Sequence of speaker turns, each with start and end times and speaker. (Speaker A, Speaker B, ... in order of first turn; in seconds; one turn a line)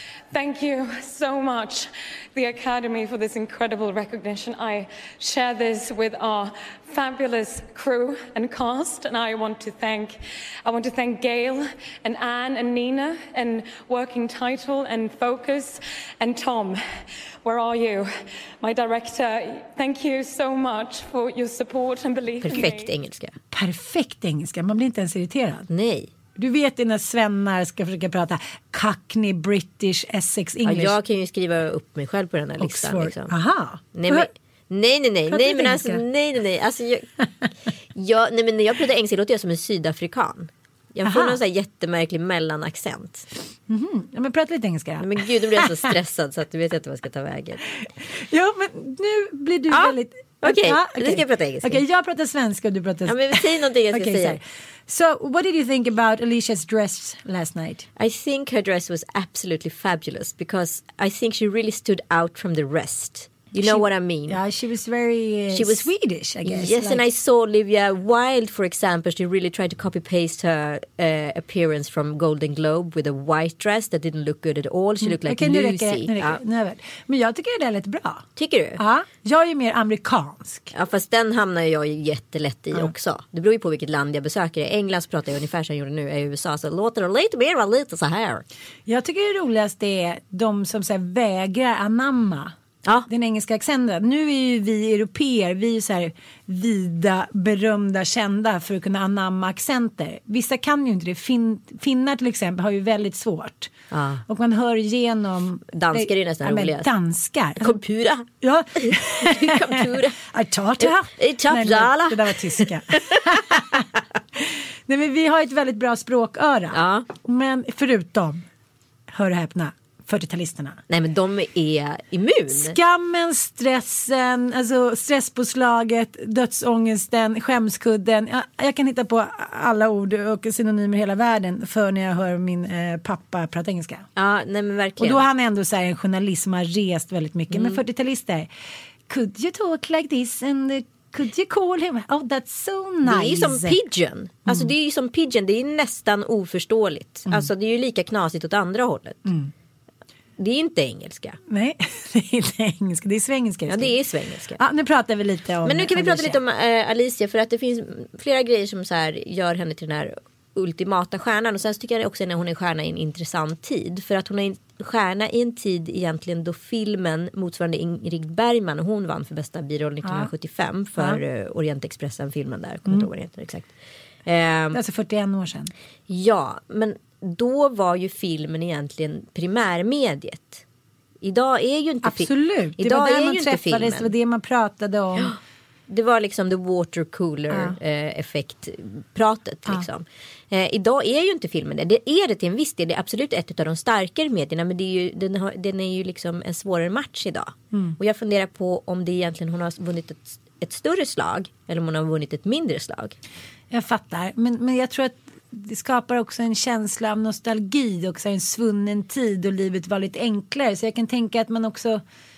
Speaker A: 0.3-16.8
Speaker A: 17.4-18.1
Speaker A: 18.6-22.9
Speaker B: 22.4-23.4
Speaker C: 23.5-25.7
Speaker B: 25.7-26.1
Speaker C: 26.3-30.9
Speaker B: 30.6-33.3
Speaker C: 32.6-34.3
Speaker B: 33.9-37.1
Speaker C: 35.3-36.0
Speaker B: 37.9-43.3
Speaker C: 41.0-41.4
Speaker C: 43.7-45.9
Speaker B: 45.0-47.6
Speaker C: 47.8-57.9
Speaker B: 49.7-51.8
Speaker B: 53.0-54.4
Speaker B: 58.0-64.4
Speaker C: 63.6-67.0
Speaker B: 65.5-65.9
Speaker B: 66.4-76.4
Speaker C: 75.0-78.3
Speaker B: 78.3-78.8
Speaker C: 78.8-80.7
Speaker B: 80.7-88.4
Speaker C: 88.8-92.5
Speaker C: 93.1-103.7
Speaker B: 103.9-104.2
Speaker C: 104.3-107.8
Speaker B: 105.7-106.9
Speaker B: 107.6-110.2
Speaker C: 108.4-118.5
Speaker B: 110.8-113.8
Speaker B: 116.7-117.1
Speaker C: 119.1-120.8
Speaker B: 120.9-122.8
Speaker C: 122.5-134.1
Speaker B: 134.2-135.2
Speaker C: 135.0-138.5
Speaker B: 137.5-137.8
Speaker C: 139.1-143.8
Speaker B: 143.0-149.3
Speaker C: 144.5-144.7
Speaker C: 149.2-149.5
Speaker B: 150.4-151.4
Speaker C: 151.5-153.9
Speaker B: 153.7-154.6
Speaker C: 154.6-156.4
Speaker B: 155.6-173.7
Speaker C: 170.0-170.3
Speaker B: 174.2-174.8
Speaker C: 174.7-175.7
Speaker B: 176.1-180.6
Speaker B: 181.2-184.1
Speaker C: 182.0-185.3
Speaker B: 185.9-203.2
Speaker C: 187.5-187.8
Speaker C: 203.7-212.0